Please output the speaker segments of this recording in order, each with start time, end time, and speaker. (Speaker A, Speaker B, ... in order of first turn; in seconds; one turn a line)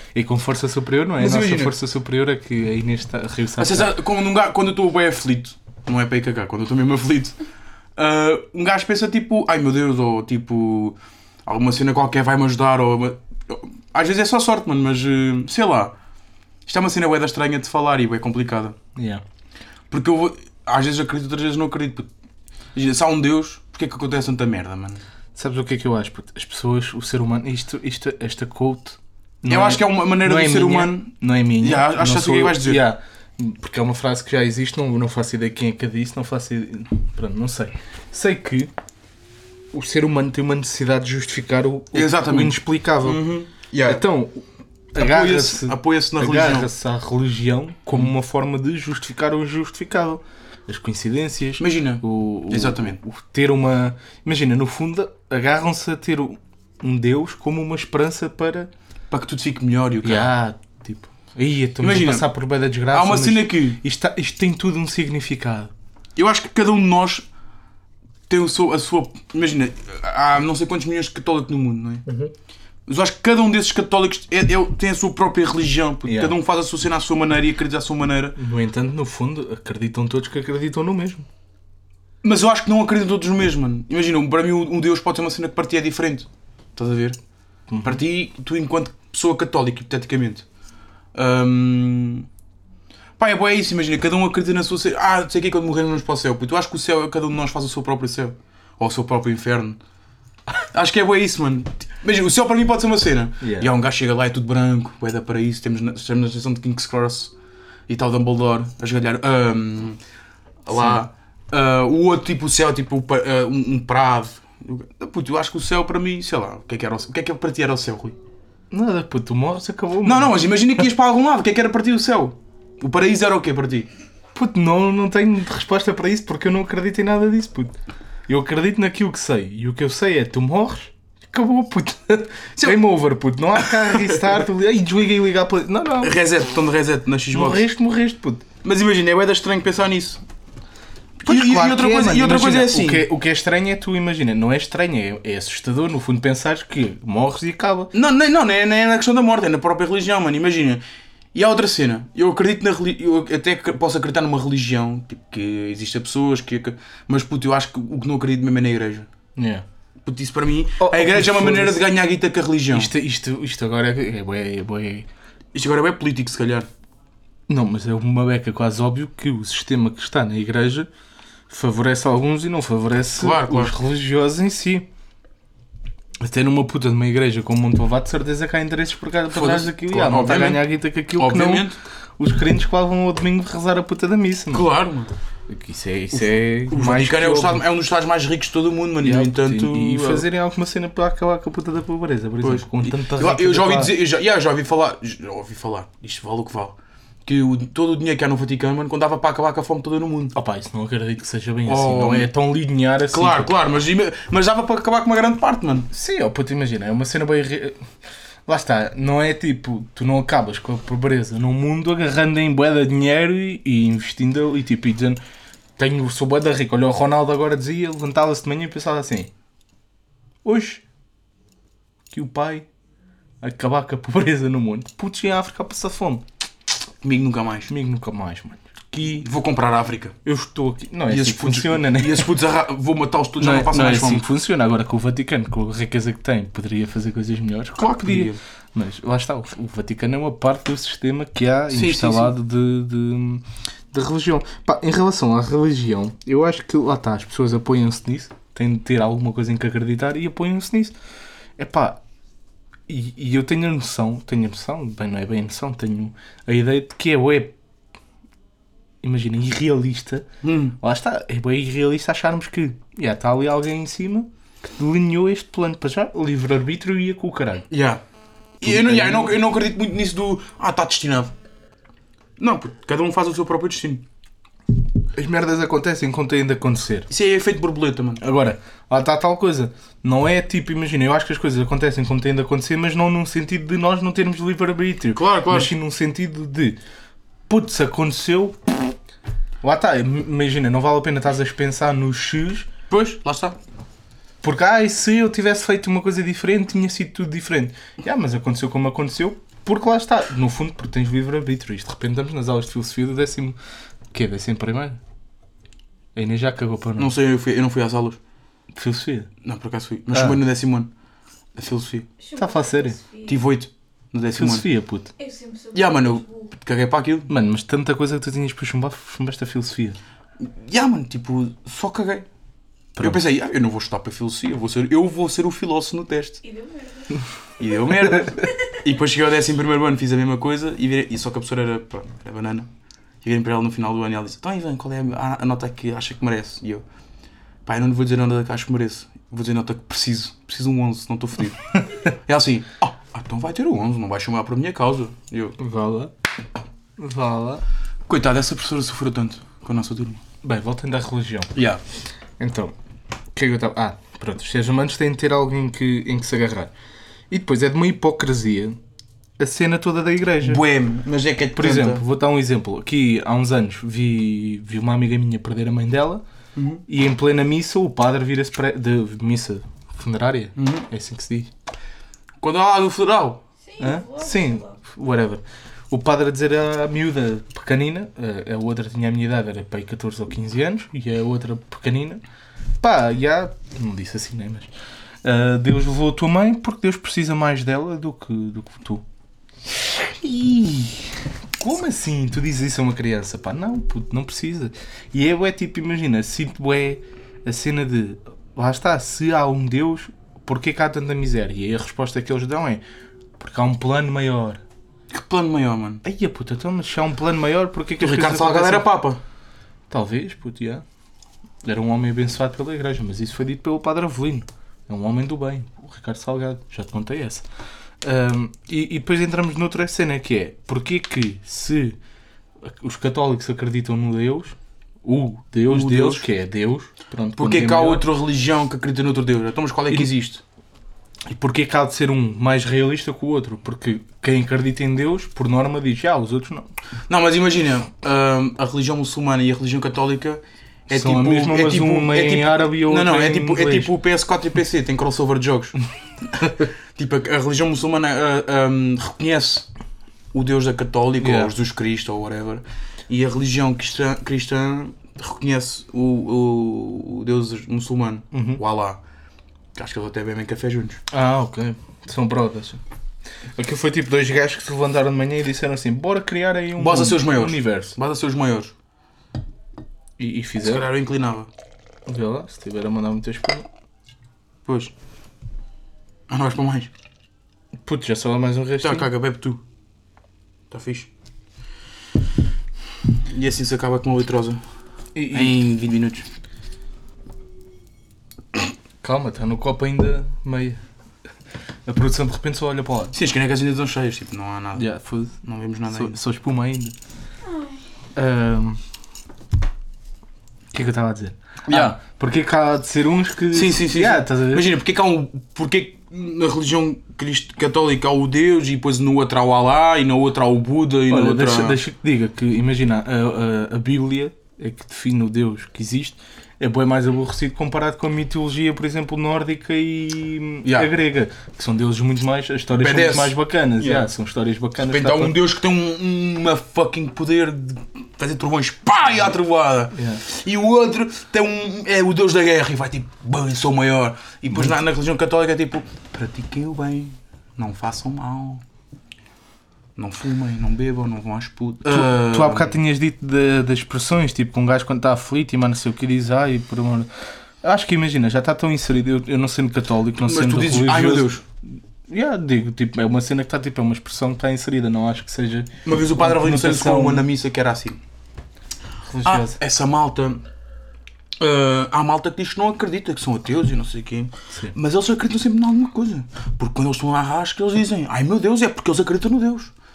Speaker A: 0.1-3.9
Speaker B: 1.2-1.7
Speaker B: 3.6-7.3
Speaker B: 8.0-15.9
Speaker B: 16.6-18.8
Speaker A: 18.9-19.2
Speaker B: 19.9-22.1
Speaker B: 22.7-25.0
Speaker A: 25.3-38.7
Speaker B: 29.5-32.8
Speaker A: 39.7-43.2
Speaker B: 41.9-44.0
Speaker A: 43.8-58.7
Speaker B: 45.0-46.7
Speaker B: 51.6-53.0
Speaker B: 59.1-60.3
Speaker A: 60.0-65.7
Speaker B: 61.8-62.2
Speaker B: 62.9-63.8
Speaker B: 66.2-67.3
Speaker B: 68.3-72.0
Speaker A: 72.0-72.3
Speaker B: 72.9-78.4
Speaker A: 76.0-76.3
Speaker A: 78.4-81.3
Speaker B: 82.2-87.2
Speaker A: 87.7-88.0
Speaker B: 87.8-90.5
Speaker B: 91.1-92.3
Speaker B: 93.2-99.8
Speaker B: 100.7-107.3
Speaker A: 103.4-103.7
Speaker B: 107.9-110.0
Speaker B: 110.7-118.2
Speaker A: 110.7-111.0
Speaker A: 118.7-120.8
Speaker B: 120.0-123.9
Speaker A: 124.3-127.7
Speaker A: 128.3-136.2
Speaker B: 133.6-134.3
Speaker B: 136.0-137.6
Speaker A: 137.3-138.4
Speaker B: 138.6-140.2
Speaker B: 141.2-143.1
Speaker A: 141.2-147.9
Speaker B: 147.9-150.8
Speaker B: 151.3-159.1
Speaker A: 159.3-159.6
Speaker B: 160.0-162.9
Speaker A: 160.8-161.9
Speaker A: 162.7-165.1
Speaker B: 165.5-166.7
Speaker A: 167.5-170.9
Speaker A: 171.5-174.9
Speaker B: 173.2-173.7
Speaker A: 176.2-184.7
Speaker B: 179.3-180.6
Speaker B: 181.2-181.8
Speaker B: 184.5-185.1
Speaker A: 185.5-187.6
Speaker B: 186.1-190.2
Speaker A: 189.0-193.9
Speaker B: 192.4-200.3
Speaker A: 200.3-203.5
Speaker B: 201.7-202.3
Speaker B: 203.1-205.9
Speaker A: 205.9-207.8
Speaker A: 208.5-215.2
Speaker A: 215.8-219.3
Speaker A: 220.4-220.8
Speaker A: 222.1-222.7
Speaker A: 223.4-226.2
Speaker B: 227.0-227.7
Speaker A: 227.7-229.3
Speaker B: 229.2-230.2
Speaker A: 230.2-232.4
Speaker B: 231.1-234.2
Speaker A: 233.4-250.9
Speaker B: 237.8-238.4
Speaker B: 241.7-242.3
Speaker A: 251.6-252.0
Speaker A: 252.9-257.5
Speaker A: 259.0-260.3
Speaker B: 260.4-260.8
Speaker A: 260.8-267.7
Speaker B: 267.7-268.0
Speaker B: 268.6-271.3
Speaker A: 268.6-269.4
Speaker B: 272.4-274.0
Speaker A: 275.1-277.1
Speaker B: 277.1-278.2
Speaker A: 278.2-286.8
Speaker B: 285.1-285.7
Speaker A: 287.5-288.9
Speaker A: 289.6-292.7
Speaker B: 292.9-293.6
Speaker A: 294.4-303.6
Speaker A: 304.1-305.0
Speaker A: 306.1-307.1
Speaker B: 307.0-308.2
Speaker A: 308.7-309.3
Speaker B: 309.4-310.9
Speaker A: 310.1-310.4
Speaker B: 311.5-312.1
Speaker C: 312.2-313.4
Speaker A: 312.4-313.0
Speaker B: 313.3-314.7
Speaker A: 314.3-315.1
Speaker C: 315.2-316.5
Speaker B: 315.7-317.3
Speaker A: 317.3-320.0
Speaker B: 320.4-322.2
Speaker A: 322.9-323.2
Speaker B: 323.0-326.4
Speaker C: 326.4-327.3
Speaker B: 327.6-332.7
Speaker C: 327.8-328.8
Speaker B: 333.2-336.8
Speaker B: 337.6-345.6
Speaker A: 345.6-346.1
Speaker A: 347.0-347.6
Speaker B: 348.1-350.2
Speaker A: 350.4-351.5
Speaker B: 351.5-351.8
Speaker A: 352.4-352.7
Speaker A: 353.3-356.7
Speaker A: 357.3-358.8
Speaker A: 359.4-360.6
Speaker B: 360.4-362.0
Speaker A: 361.5-366.2
Speaker B: 366.5-366.8
Speaker A: 366.9-371.5
Speaker B: 370.6-370.9
Speaker B: 372.4-373.4
Speaker C: 373.6-374.8
Speaker A: 373.8-382.2
Speaker A: 382.8-384.7
Speaker A: 385.2-389.0
Speaker A: 389.7-402.8
Speaker A: 403.4-404.6
Speaker B: 405.1-406.0
Speaker A: 406.0-408.9
Speaker B: 408.0-409.2
Speaker A: 409.9-410.8
Speaker A: 411.6-417.4
Speaker A: 418.0-422.0
Speaker A: 422.6-428.0
Speaker B: 425.7-426.2
Speaker B: 427.4-430.4
Speaker A: 431.2-436.7
Speaker B: 437.1-445.8
Speaker A: 440.9-443.9
Speaker B: 446.4-449.7
Speaker B: 450.3-459.0
Speaker A: 451.2-451.5
Speaker A: 458.3-458.6
Speaker B: 459.7-461.0
Speaker A: 461.1-462.8
Speaker A: 463.6-467.9
Speaker B: 466.8-468.7
Speaker A: 470.2-470.9
Speaker B: 470.6-471.5
Speaker A: 472.1-473.6
Speaker B: 474.6-474.9
Speaker B: 476.3-476.9
Speaker A: 477.8-479.1
Speaker B: 478.8-479.6
Speaker B: 480.7-481.1
Speaker B: 483.3-484.6
Speaker A: 485.1-485.6
Speaker B: 485.3-486.2
Speaker A: 489.0-490.8
Speaker A: 491.9-493.1
Speaker B: 493.1-494.9
Speaker A: 494.8-496.9
Speaker B: 495.4-496.2
Speaker C: 497.4-497.8
Speaker A: 498.1-498.8
Speaker A: 500.7-504.7
Speaker B: 501.7-501.9
Speaker B: 503.5-511.8
Speaker A: 511.1-525.4
Speaker B: 520.6-520.9
Speaker B: 522.8-524.1
Speaker B: 524.8-538.6
Speaker A: 529.9-530.2
Speaker B: 540.0-542.7
Speaker A: 541.9-547.1
Speaker A: 547.6-551.3
Speaker B: 550.2-551.4
Speaker A: 552.1-557.2
Speaker B: 555.8-558.0
Speaker A: 559.1-559.6
Speaker B: 559.2-560.4
Speaker B: 561.4-569.7